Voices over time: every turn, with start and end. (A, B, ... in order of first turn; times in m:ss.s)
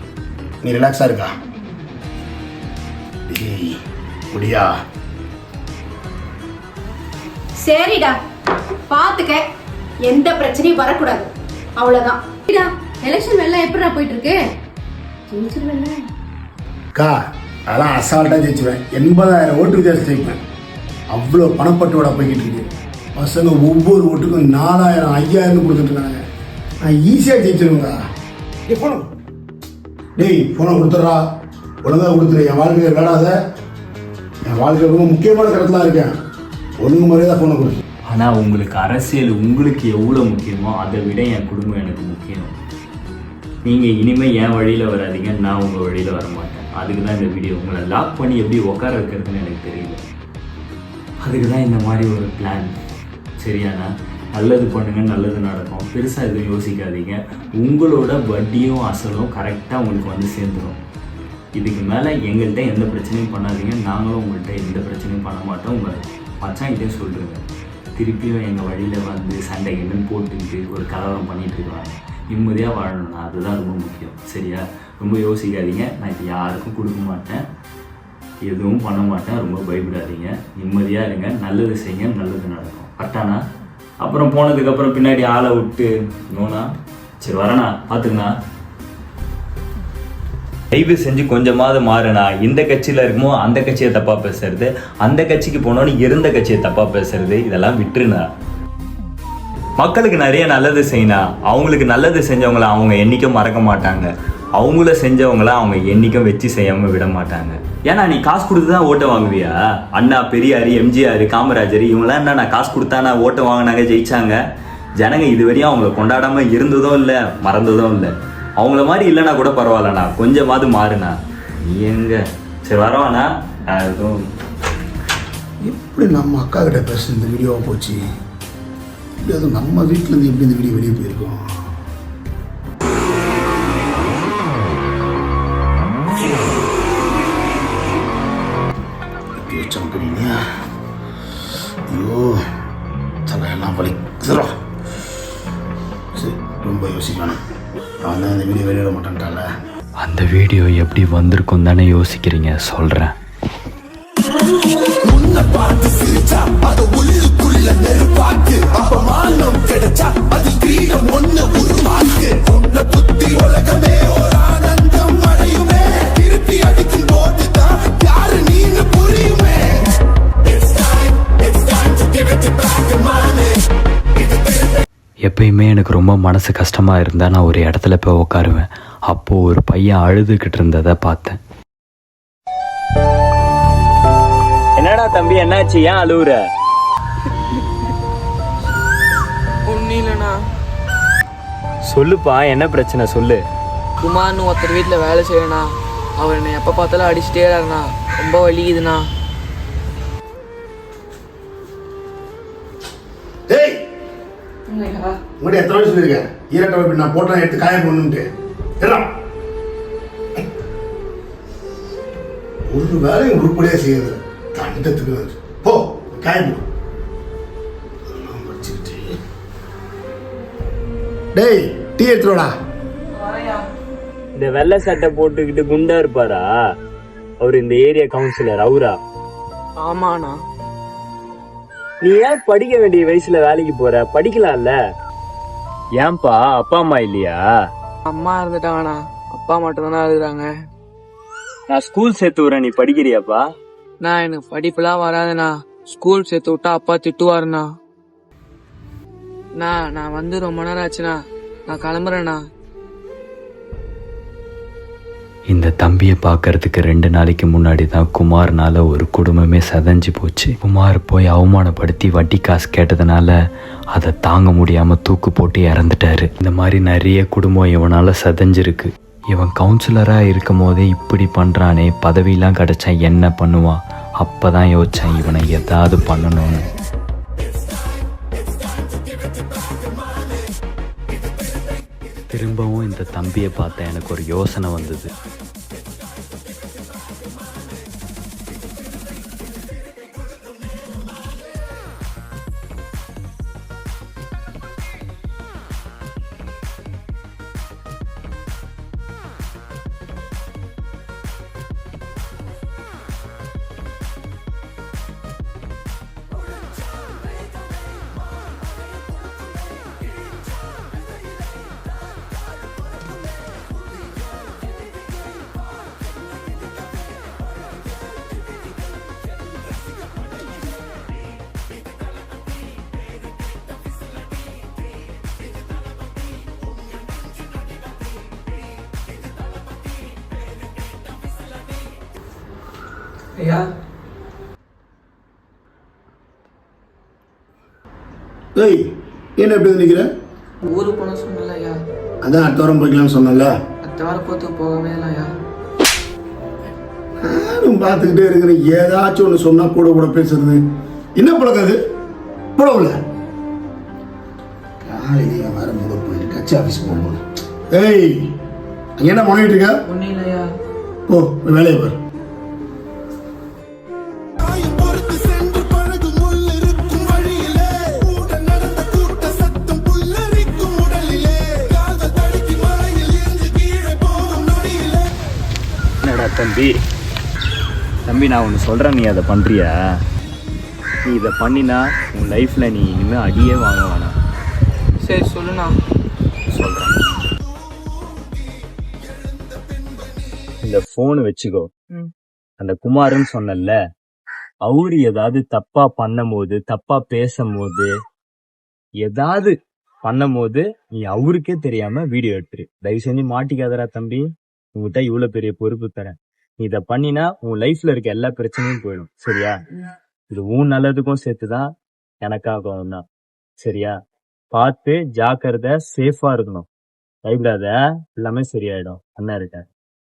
0:00.6-0:01.3 A
0:03.3-0:03.8 A
0:04.3-0:04.8 A
0:07.6-0:08.2 B
0:08.9-0:09.4 B
0:10.0-0:14.4 B
0:15.3-0:15.9 B
0:17.7-0:20.4 A
0:21.1-0:26.2 A
0:26.8-0:28.0 A
0:28.6-0:29.1 A
0:30.2-0:31.2 A
0:31.8-0:33.4 A
0:34.4-0:36.1 A
0:36.8-0:37.8 A
0:38.1-0:42.5 C
0:43.6-0:50.0 C
0:51.2-0:52.7 C
0:53.4-1:00.8 C
1:01.6-1:07.4 C
1:08.0-1:17.4 C
1:18.4-1:23.4 C
1:24.0-1:26.7 C
1:27.2-1:28.4 C
1:30.7-1:38.3 C
1:39.8-1:54.4 C
1:55.0-2:04.3 C
2:05.6-2:08.0 A
2:09.2-2:11.4 A
2:19.4-2:20.4 A
2:21.9-2:22.4 A
2:23.2-2:24.5 A
2:26.1-2:27.4 A
2:28.0-2:29.4 A
2:30.0-2:33.1 C
2:55.3-3:01.3 C
3:04.8-3:06.4 C
3:09.7-3:10.3 D
3:11.9-3:13.4 C
3:14.0-3:15.6 D
3:16.2-3:19.0 D
3:23.5-3:23.8 A
3:24.7-3:25.2 D
3:25.4-3:28.3 A
3:28.8-3:29.1 A
3:32.7-3:36.6 A
3:38.1-3:39.2 A
3:41.3-3:42.5 A
3:43.1-3:43.6 D
3:44.4-3:46.5 C
3:47.4-3:49.0 C
3:49.8-3:50.3 D
3:52.0-3:54.7 C
3:56.0-3:57.4 C
3:58.1-4:00.5 D
4:01.7-4:03.4 C
4:04.0-4:07.6 D
4:09.6-4:11.1 D
4:11.7-4:12.4 D
4:15.6-4:23.3 C
4:24.0-4:36.6 C
4:42.3-4:45.1 C
5:38.5-5:40.1 A
5:40.7-5:41.8 D
5:42.2-5:43.6 A
5:43.8-5:45.3 D
5:47.2-5:50.6 A
5:51.2-5:51.8 A
5:52.6-5:53.0 A
5:54.8-5:58.3 A
5:59.0-5:59.8 A
5:59.9-6:00.5 D
6:01.1-6:02.0 A
6:16.0-6:16.8 C
6:18.0-6:19.7 C
6:21.0-6:24.2 C
6:25.0-6:25.8 D
6:26.5-6:27.1 C
6:30.6-6:31.7 C
6:32.6-6:33.7 C
6:34.6-6:37.9 C
6:39.0-6:49.6 C
6:50.3-6:51.7 C
6:52.2-6:53.0 C
6:53.6-6:54.0 C
6:54.5-6:56.7 C
6:57.2-6:59.6 C